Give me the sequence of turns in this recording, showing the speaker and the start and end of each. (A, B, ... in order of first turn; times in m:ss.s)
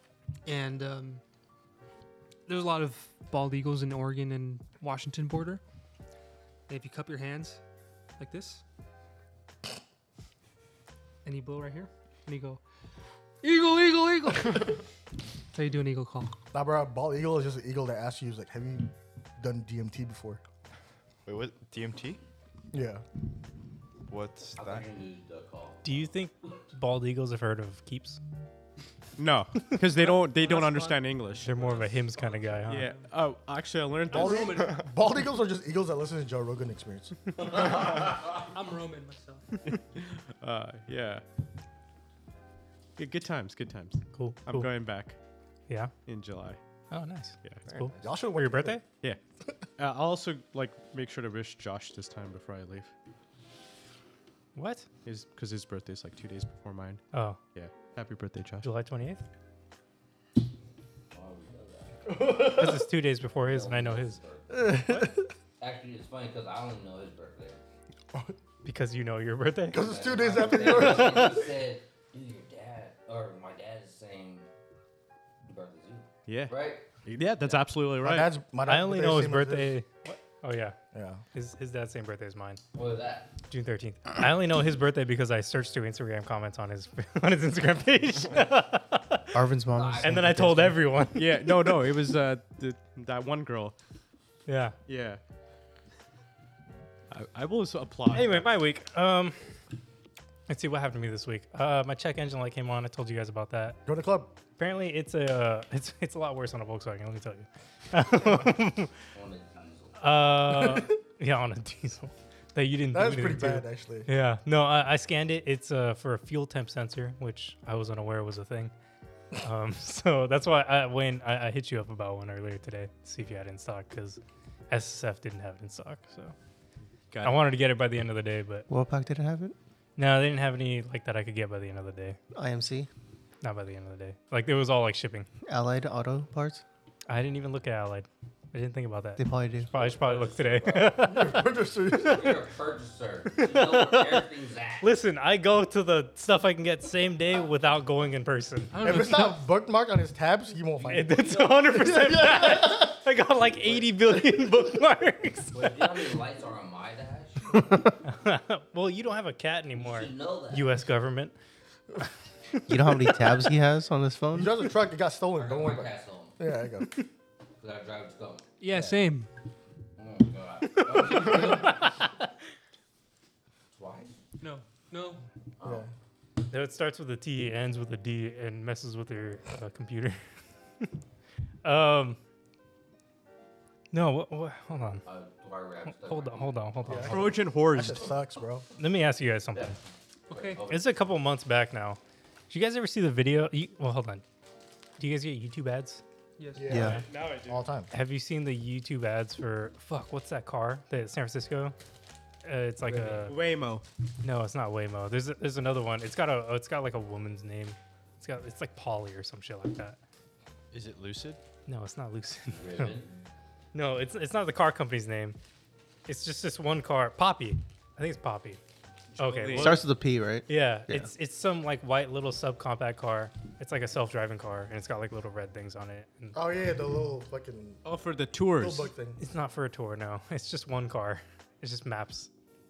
0:00.4-0:01.2 A
0:02.5-0:05.6 A
0:06.7-0:07.6 A
0:08.2-0:08.6 A
0:11.2-0:12.6 A
0:13.4-0:14.8 A
0:15.5-0:16.4 A
0:16.5-0:20.4 B
0:21.2-0:22.2 C
0:22.7-0:23.0 B
0:24.1-0:24.9 C
0:24.6-0:26.1 D
0:25.8-0:28.2 E
0:29.2-0:31.8 F
0:29.6-0:29.8 E
0:30.0-0:31.1 A
0:31.4-0:32.9 E
0:32.7-0:34.6 F
0:32.7-0:33.1 A
0:34.1-0:37.3 B
0:34.1-0:34.8 A
0:37.6-0:39.6 A
0:39.7-0:41.2 F
0:43.0-0:45.2 F
0:44.1-0:44.7 E
0:46.0-0:46.6 F
0:46.9-0:48.8 E
0:47.7-0:48.0 C
0:48.0-0:48.8 B
0:49.8-0:52.9 F
0:54.5-0:54.8 E
0:55.0-0:57.0 F
0:57.1-0:57.4 E
0:57.5-0:58.7 F
0:58.6-0:59.2 E
1:01.1-1:02.5 D
1:02.0-1:02.9 B
1:02.4-1:04.2 E
1:03.4-1:04.8 D
1:04.5-1:05.3 B
1:04.8-1:05.1 E
1:05.6-1:07.6 D
1:08.6-1:09.9 E
1:09.7-1:11.5 B
1:09.7-1:14.5 D
1:15.5-1:16.9 D
1:16.3-1:18.3 F
1:17.4-1:17.7 D
1:18.0-1:19.7 B
1:18.6-1:20.8 E
1:20.9-1:21.2 B
1:21.3-1:22.6 E
1:22.7-1:23.3 D
1:23.5-1:29.4 E
1:29.3-1:30.8 G
1:29.7-1:30.3 D
1:30.0-1:31.8 E
1:31.1-1:33.7 F
1:34.5-1:34.8 E
1:34.9-1:35.2 F
1:37.1-1:38.6 F
1:38.1-1:39.5 E
1:40.5-1:43.8 E
1:43.8-1:44.3 B
1:44.6-1:48.9 E
1:49.1-1:50.2 D
1:50.0-1:58.7 E
1:52.9-1:54.1 B
1:59.4-2:06.3 E
2:07.1-2:07.5 F
2:07.2-2:08.6 E
2:08.7-2:09.6 G
2:10.0-2:12.2 E
2:12.3-2:12.9 G
2:13.4-2:15.3 E
2:15.4-2:16.6 G
2:17.1-2:21.5 E
2:19.2-2:19.7 G
2:19.6-2:24.9 D
2:21.0-2:22.4 B
2:23.4-2:24.2 E
2:24.8-2:28.8 E
2:28.7-2:29.4 A
2:28.8-2:32.9 B
2:30.8-2:35.7 E
2:31.2-2:31.5 D
2:35.5-2:37.7 D
2:38.0-2:41.3 E
2:39.8-2:40.8 D
2:42.7-2:44.6 G
2:44.3-2:46.9 B
2:45.3-2:46.3 D
2:47.6-2:48.9 D
2:48.6-2:49.3 A
2:50.0-2:51.9 D
2:50.7-2:52.3 E
2:53.7-2:54.1 D
2:54.4-2:55.2 A
2:55.6-2:55.8 D
2:55.6-2:55.9 B
2:56.5-3:00.2 E
3:01.6-3:02.2 E
3:03.9-3:05.0 E
3:05.0-3:07.1 D
3:05.9-3:07.3 E
3:06.8-3:08.7 B
3:07.1-3:08.2 F
3:08.8-3:09.7 E
3:09.5-3:11.1 D
3:10.3-3:10.6 A
3:10.6-3:14.2 E
3:15.0-3:16.0 E
3:16.4-3:16.9 A
3:16.5-3:17.9 B
3:16.7-3:17.0 G
3:16.7-3:17.7 F
3:17.9-3:21.7 E
3:22.4-3:23.4 E
3:22.9-3:23.4 D
3:23.2-3:23.8 F
3:24.2-3:30.0 E
3:30.7-3:31.4 C
3:30.7-3:31.4 F
3:31.7-3:33.0 E
3:32.5-3:33.2 D
3:33.7-3:35.4 E
3:36.1-3:38.6 E
3:39.1-3:39.8 F
3:39.2-3:39.8 E
3:39.5-3:41.1 G
3:40.5-3:46.4 E
3:46.3-3:47.8 B
3:47.8-3:48.9 F
3:48.5-3:49.2 B
3:49.2-3:52.3 E